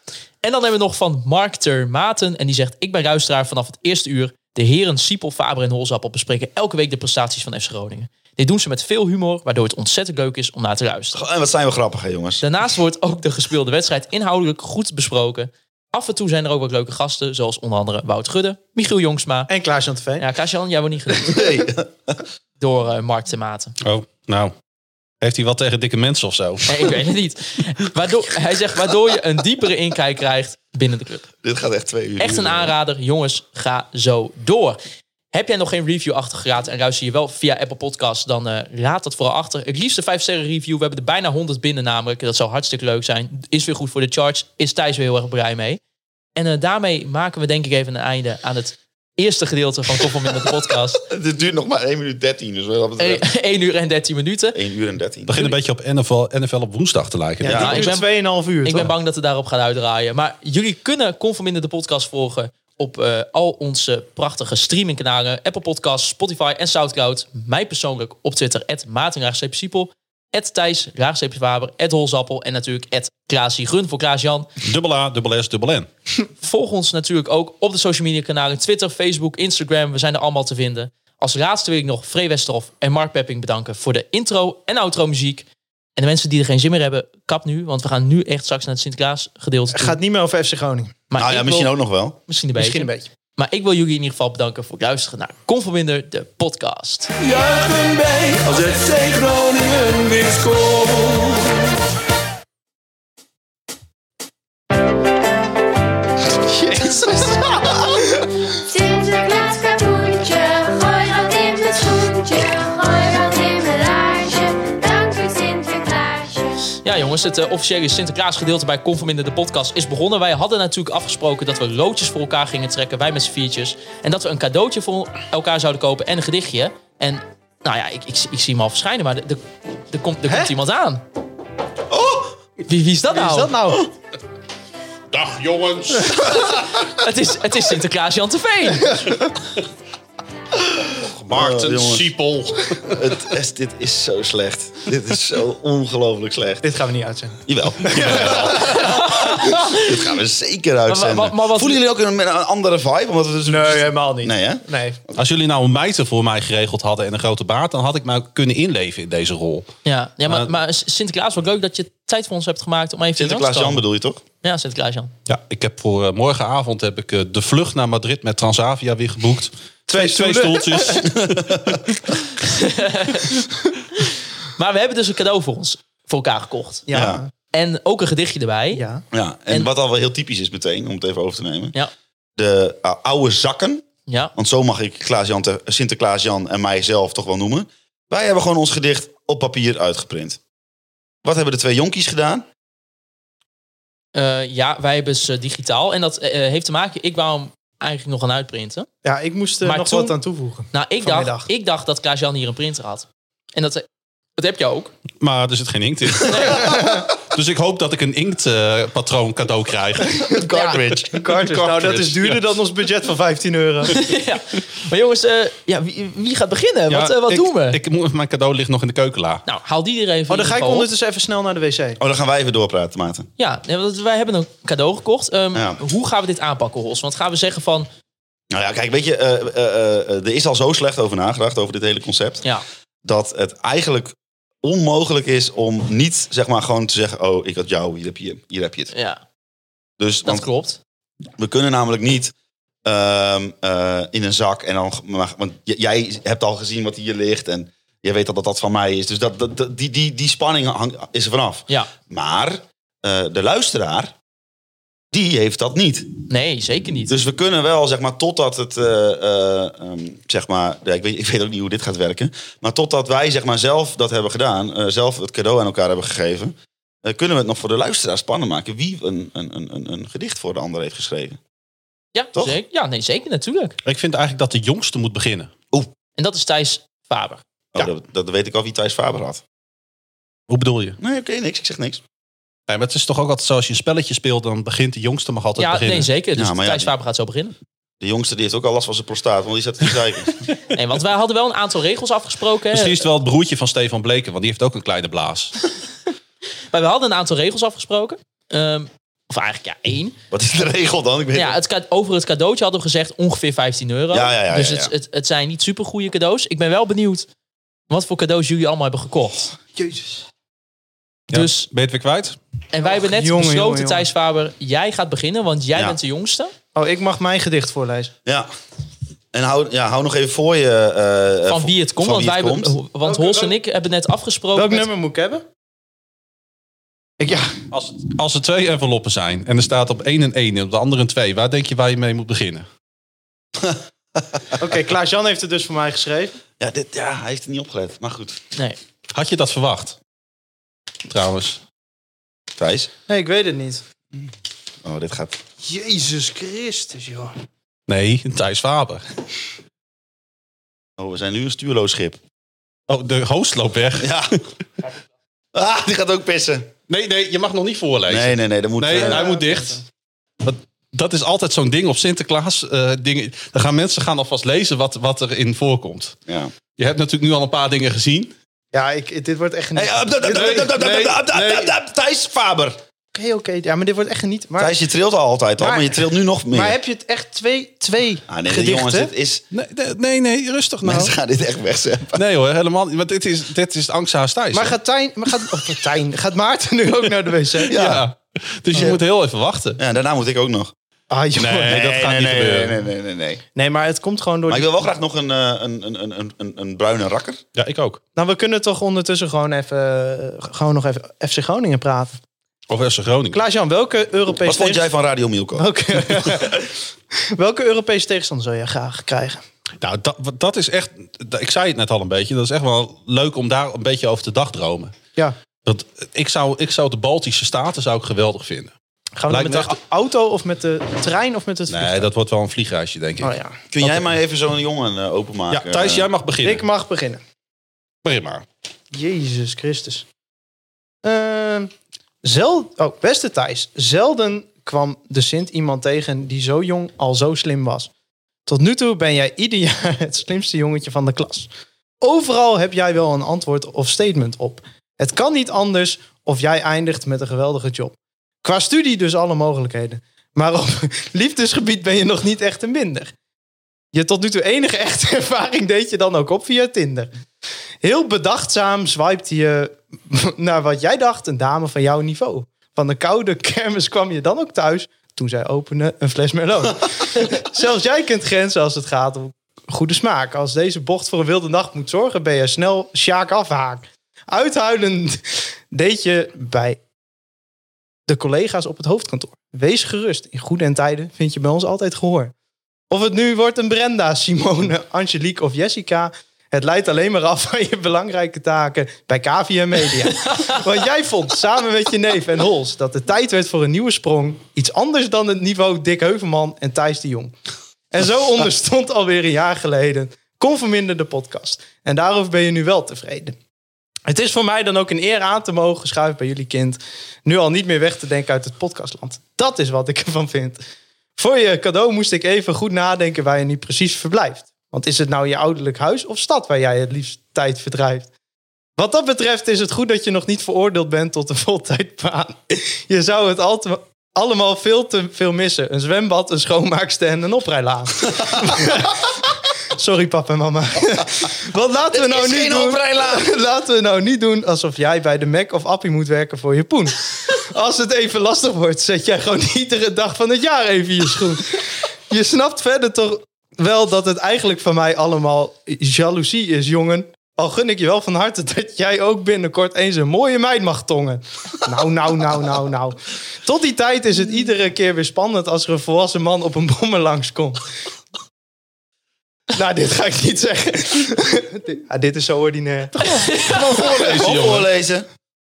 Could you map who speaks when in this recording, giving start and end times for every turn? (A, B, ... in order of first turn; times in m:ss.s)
0:00.4-0:11.2 A
0:11.1-0:12.5 B
0:12.4-0:19.5 A
0:19.5-0:20.3 C
0:20.2-0:21.4 A
0:21.2-0:22.2 B
0:22.6-0:23.8 A
0:23.8-0:24.5 D
0:25.2-0:26.7 D
0:26.7-0:31.3 A
0:31.4-0:32.7 B
0:32.2-0:34.8 A
0:35.3-0:45.8 A
0:46.4-0:51.0 A
0:51.0-0:53.3 B
0:53.0-0:54.6 A
0:54.5-0:55.5 B
0:55.3-0:57.9 D
0:57.4-0:58.9 C
0:57.4-0:57.8 B
0:57.6-0:58.1 A
0:58.6-1:14.5 A
1:14.6-1:15.9 D
1:16.4-1:25.5 A
1:26.0-1:30.0 A
1:29.7-1:31.0 C
1:31.1-1:31.7 A
1:31.2-1:32.2 B
1:32.3-1:37.1 A
1:32.6-1:33.1 C
1:37.2-1:41.7 E
1:46.4-1:48.3 C
1:48.7-1:56.8 F
1:56.8-2:11.0 A
2:10.3-2:10.5 C
2:11.9-2:12.4 B
2:12.7-2:13.5 A
2:13.1-2:13.9 C
2:15.1-2:16.7 D
2:16.9-2:19.0 A
2:18.9-2:19.2 C
2:20.7-2:22.1 B
2:21.2-2:23.0 D
2:22.9-2:26.6 B
2:26.6-2:28.9 C
2:27.5-2:35.1 B
2:28.0-2:28.6 D
2:28.8-2:29.9 A
2:30.9-2:31.8 A
2:33.5-2:35.0 C
2:35.2-2:39.7 D
2:39.8-2:43.8 A
2:43.2-2:44.2 B
2:44.4-2:45.1 A
2:45.3-2:52.0 D
2:49.9-2:51.0 C
2:50.9-2:51.8 B
2:52.4-2:53.3 A
2:54.6-2:56.9 A
2:56.9-2:57.3 C
2:56.9-2:57.2 B
2:57.5-2:58.8 A
2:58.7-2:59.0 C
2:59.1-3:01.8 B
3:02.4-3:03.8 B
3:04.1-3:04.3 A
3:04.4-3:10.4 B
3:11.2-3:12.5 B
3:14.2-3:18.9 A
3:19.0-3:21.5 C
3:19.6-3:20.2 A
3:20.7-3:23.9 A
3:24.4-3:24.9 A
3:25.2-3:30.2 D
3:26.2-3:26.6 A
3:26.4-3:27.1 C
3:30.2-3:30.6 C
3:30.3-3:32.0 B
3:30.5-3:30.8 A
3:31.1-3:34.0 C
3:31.6-3:32.4 D
3:33.9-3:37.8 A
3:36.9-3:39.4 D
3:39.4-3:40.9 A
3:40.3-3:42.0 C
3:42.0-3:43.3 B
3:43.4-3:47.9 A
3:48.5-3:52.4 B
3:53.0-3:58.9 B
3:58.9-3:59.2 A
4:00.0-4:00.5 B
4:00.3-4:00.8 A
4:01.4-4:02.3 B
4:02.8-4:14.1 B
4:15.1-4:16.1 B
4:16.3-4:17.2 A
4:17.1-4:31.4 B
4:32.2-4:33.8 A
4:33.8-4:35.5 D
4:36.2-4:37.4 A
4:37.7-4:39.4 B
4:40.5-4:41.0 D
4:41.0-4:42.0 B
4:42.7-4:46.1 D
4:45.6-4:47.6 A
4:46.4-4:46.9 B
4:48.0-4:50.4 B
4:50.7-4:53.0 A
4:52.7-4:55.5 D
4:56.7-5:00.2 A
5:00.3-5:01.6 B
5:01.3-5:07.3 A
5:04.1-5:04.9 B
5:07.9-5:09.5 A
5:09.8-5:10.2 C
5:11.3-5:12.4 D
5:11.3-5:11.7 A
5:12.7-5:16.5 A
5:12.8-5:14.1 C
5:16.8-5:18.1 C
5:19.3-5:22.8 B
5:21.5-5:24.9 A
5:23.0-5:23.6 C
5:24.6-5:25.4 C
5:27.2-5:27.6 C
5:27.7-5:32.7 D
5:34.6-5:36.4 C
5:36.6-5:38.4 B
5:39.1-5:40.0 D
5:41.1-5:41.6 D
5:42.6-5:42.9 B
5:43.1-5:43.8 C
5:44.8-5:45.4 B
5:45.6-5:47.3 C
5:47.9-5:49.0 D
5:51.0-5:52.2 B
5:52.9-5:54.2 D
5:54.0-5:54.4 B
5:55.5-5:56.7 B
5:56.9-5:59.8 D
5:58.1-5:59.4 B
5:59.0-5:59.8 C
6:00.4-6:06.2 D
6:06.3-6:06.5 B
6:06.8-6:08.3 D
6:08.7-6:11.7 C
6:09.7-6:12.8 B
6:10.3-6:10.7 D
6:13.2-6:14.8 C
6:14.6-6:16.8 B
6:15.6-6:19.1 C
6:18.3-6:19.4 B
6:19.5-6:21.1 D
6:20.8-6:22.2 B
6:22.2-6:24.8 D
6:24.5-6:28.0 C
6:27.7-6:29.8 D
6:27.7-6:28.0 B
6:29.8-6:30.7 B
6:31.1-6:31.8 C
6:31.4-6:32.8 D
6:31.6-6:33.4 B
6:33.6-6:34.7 C
6:34.5-6:37.4 B
6:37.6-6:38.0 D
6:38.2-6:42.2 C
6:42.7-6:43.4 D
6:43.3-6:44.8 C
6:44.4-6:46.3 B
6:45.6-6:46.7 C
6:47.3-6:49.4 C
6:49.8-6:55.0 D
6:55.7-6:58.7 D
6:59.2-7:02.1 C
6:59.3-6:59.7 D
7:01.7-7:04.0 D
7:03.2-7:03.6 C
7:03.7-7:06.1 B
7:05.5-7:06.7 D
7:06.4-7:07.2 C
7:08.0-7:08.4 D
7:08.9-7:10.0 C
7:11.0-7:11.7 C
7:12.2-7:17.9 C
7:18.5-7:21.5 C
7:22.0-7:33.1 C
7:33.9-7:37.1 C
7:37.8-7:56.8 C
7:58.1-8:02.3 C
8:02.9-8:17.4 C
8:17.9-8:23.4 C
8:24.1-8:30.6 C
8:31.2-8:38.1 C
8:38.8-8:49.1 C
8:49.7-9:17.6 C
8:51.9-8:53.3 B
9:19.5-9:23.5 C
9:23.2-9:23.6 A
9:23.3-9:24.7 D
9:23.8-9:25.1 B